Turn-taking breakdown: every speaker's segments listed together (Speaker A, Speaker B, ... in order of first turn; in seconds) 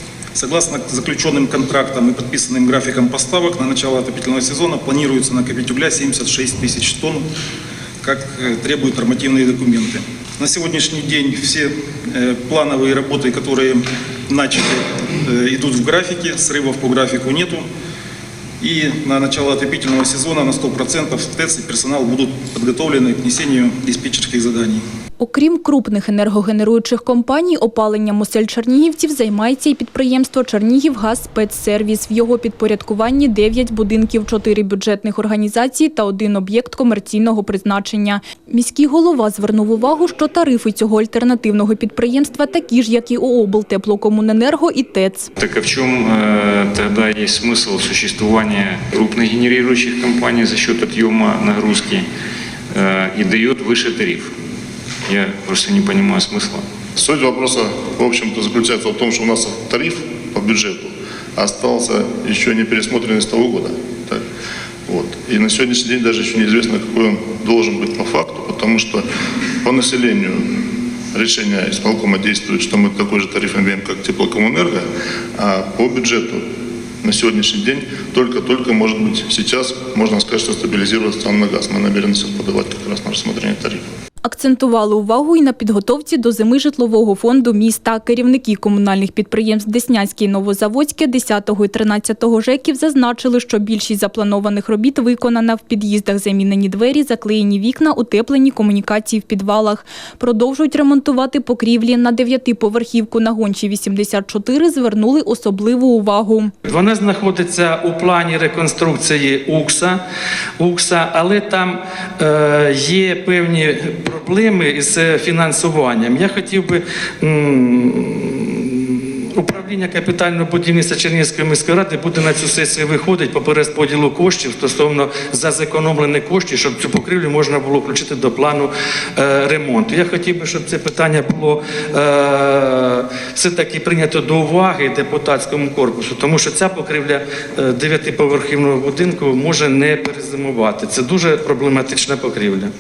Speaker A: 0.3-7.2, 8.0-17.7, 18.6-24.8
Speaker B: 25.2-45.3, 84.2-106.5
Speaker C: 45.4-52.0, 52.7-54.3, 55.1-56.6
Speaker D: 57.0-64.2, 64.9-69.0, 69.6-70.5, 71.1-74.8, 75.4-76.5, 77.0-83.8
Speaker E: 106.7-110.0, 110.6-142.7